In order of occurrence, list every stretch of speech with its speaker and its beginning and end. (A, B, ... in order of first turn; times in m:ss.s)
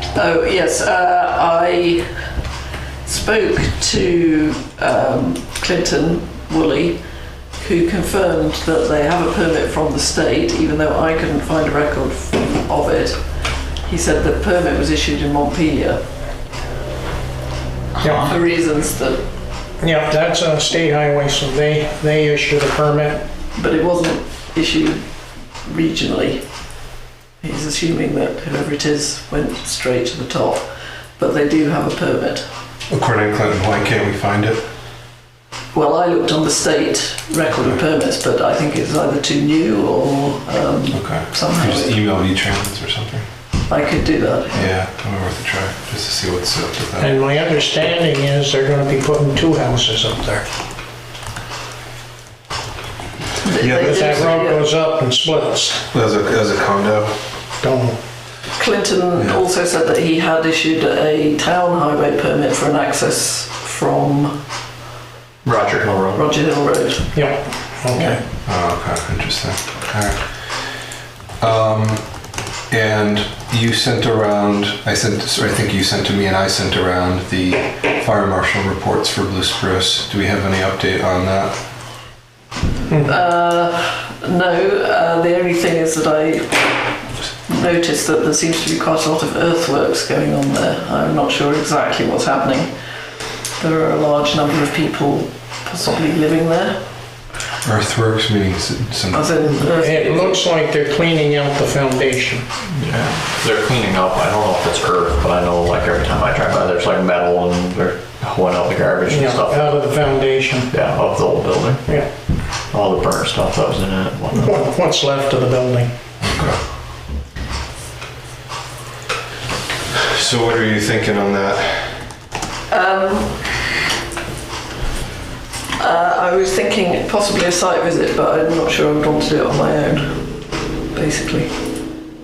0:00.1-0:02.0 A
0:03.0-0:07.0 A
0:07.6-0:13.2 A
0:13.8-0:16.0 A
0:18.0-0:18.3 B
0:18.2-0:19.2 A
0:19.8-0:23.2 B
0:23.5-0:25.0 A
0:25.6-0:26.4 A
0:27.4-0:30.6 A
0:31.2-0:32.4 A
0:32.9-0:34.7 C
0:35.7-0:42.0 A
0:40.9-0:43.3 C
0:43.7-0:44.7 A
0:44.5-0:47.2 C
0:47.0-0:50.4 B
0:53.4-0:54.7 A
0:53.6-0:54.3 C
0:53.8-0:55.9 B
0:55.9-0:57.1 C
0:57.6-0:58.0 B
0:58.6-1:04.4 A
1:05.4-1:06.2 D
1:06.1-1:07.3 A
1:07.1-1:08.2 B
1:08.4-1:10.6 C
1:11.4-1:21.6 C
1:22.9-1:32.7 A
1:33.6-1:36.8 A
1:37.6-1:39.3 C
1:39.1-1:40.4 A
1:39.8-1:42.4 B
1:42.7-1:49.6 D
1:49.1-1:50.7 B
1:50.7-1:51.8 D
1:52.7-1:54.5 D
1:54.3-1:55.9 B
1:56.2-1:56.6 C
1:59.9-2:02.0 C
2:02.7-2:03.6 A
2:05.8-2:10.3 A
2:10.9-2:11.5 A